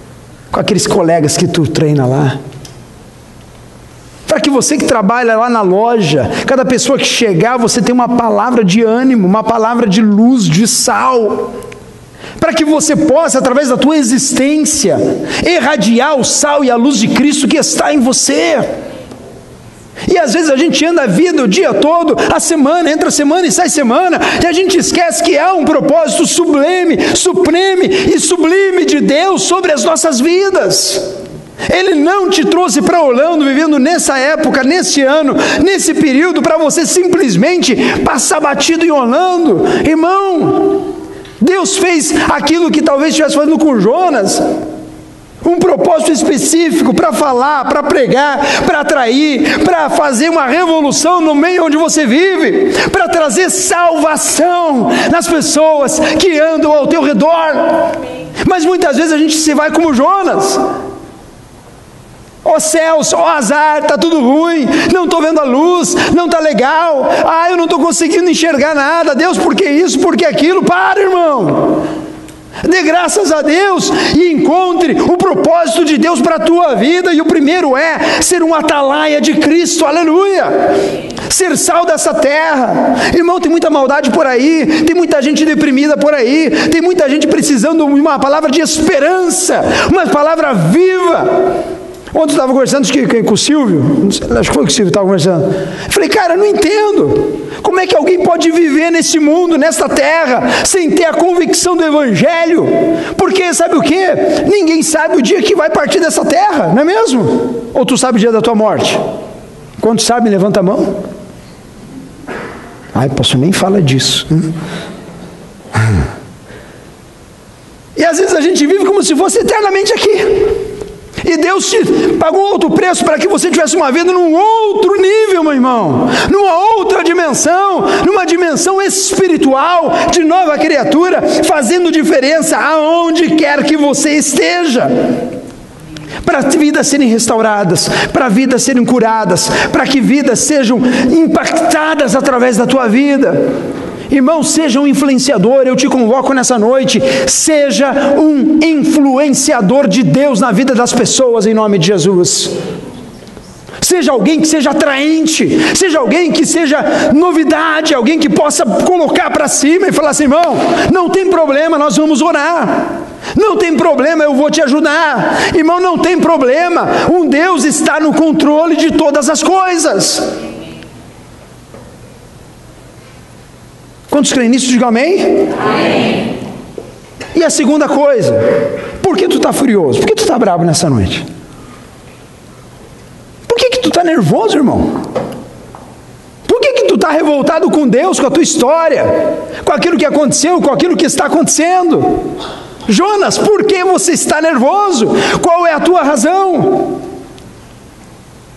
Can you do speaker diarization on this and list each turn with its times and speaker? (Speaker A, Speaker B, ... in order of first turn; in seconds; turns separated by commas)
Speaker A: 0.5-2.4, Speaker A: 4.3-11.5, Speaker A: 12.4-18.7, Speaker A: 20.0-31.1, Speaker A: 31.6-40.9, Speaker A: 41.4-44.4, Speaker A: 45.4-60.6, Speaker A: 62.4-71.8, Speaker A: 72.6-91.5, Speaker A: 92.1-109.0, Speaker A: 109.8-111.0, Speaker A: 112.9-114.5, Speaker A: 118.0-120.6, Speaker A: 121.2-134.9, Speaker A: 136.2-143.4, Speaker A: 144.1-152.5, Speaker A: 153.8-170.3, Speaker A: 174.1-175.5, Speaker A: 177.3-178.4, Speaker A: 179.0-181.2, Speaker A: 183.5-185.0, Speaker A: 186.4-192.2, Speaker A: 192.9-197.0